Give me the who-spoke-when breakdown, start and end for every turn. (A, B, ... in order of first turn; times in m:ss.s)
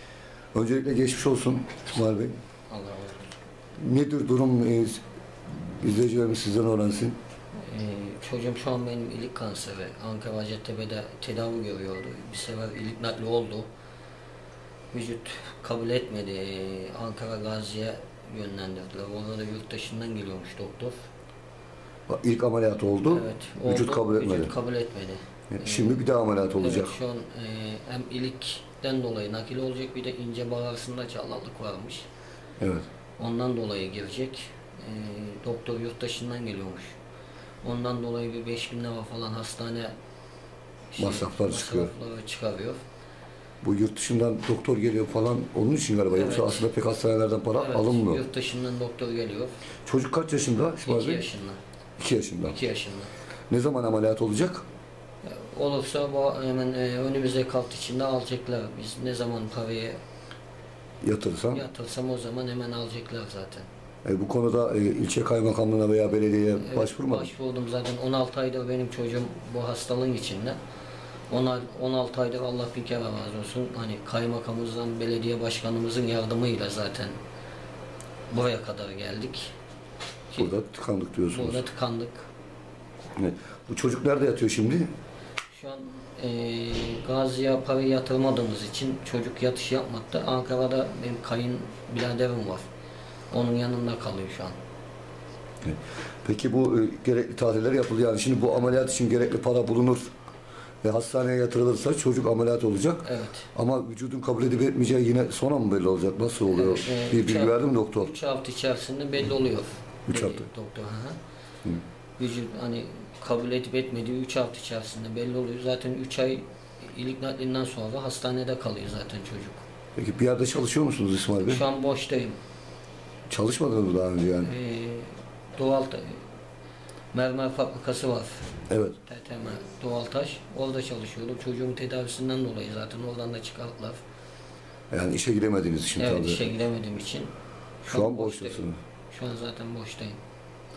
0:00.5-0:02.4 A
0:02.7-0:03.4 B
0:03.8-0:07.2 A
0:07.5-0:13.7 B
0:14.9-0:21.0 B
0:22.1-0:24.5 A
0:23.1-0:26.0 B
0:25.5-0:27.0 A
0:26.6-0:32.0 B
0:32.6-0:32.9 A
0:33.2-0:37.0 B
0:37.6-0:39.9 B
0:40.9-0:42.8 B
0:41.0-0:41.9 A
0:43.6-0:48.2 A
0:46.1-0:46.7 B
0:47.6-0:49.6 B
0:49.8-0:51.2 A
0:50.8-0:51.6 B
0:52.0-0:52.6 A
0:52.4-0:53.1 B
0:53.5-0:54.6 A
0:55.2-1:00.0 B
1:01.0-1:01.6 A
1:01.5-1:03.6 B
1:04.0-1:07.3 A
1:06.6-1:10.6 B
1:11.3-1:17.2 B
1:18.3-1:19.5 B
1:20.4-1:21.6 A
1:21.3-1:22.3 B
1:23.2-1:24.9 A
1:25.5-1:32.7 B
1:33.3-1:34.6 B
1:35.6-1:40.1 A
1:40.8-1:48.1 A
1:43.0-1:43.5 B
1:46.4-1:51.2 B
1:50.1-1:50.5 A
1:52.2-1:59.6 B
2:00.0-2:01.6 A
2:01.4-2:02.4 B
2:03.3-2:04.5 A
2:04.4-2:06.3 B
2:07.1-2:08.5 B
2:08.7-2:09.0 A
2:09.0-2:14.0 B
2:14.9-2:16.5 A
2:15.9-2:20.2 B
2:17.9-2:18.8 A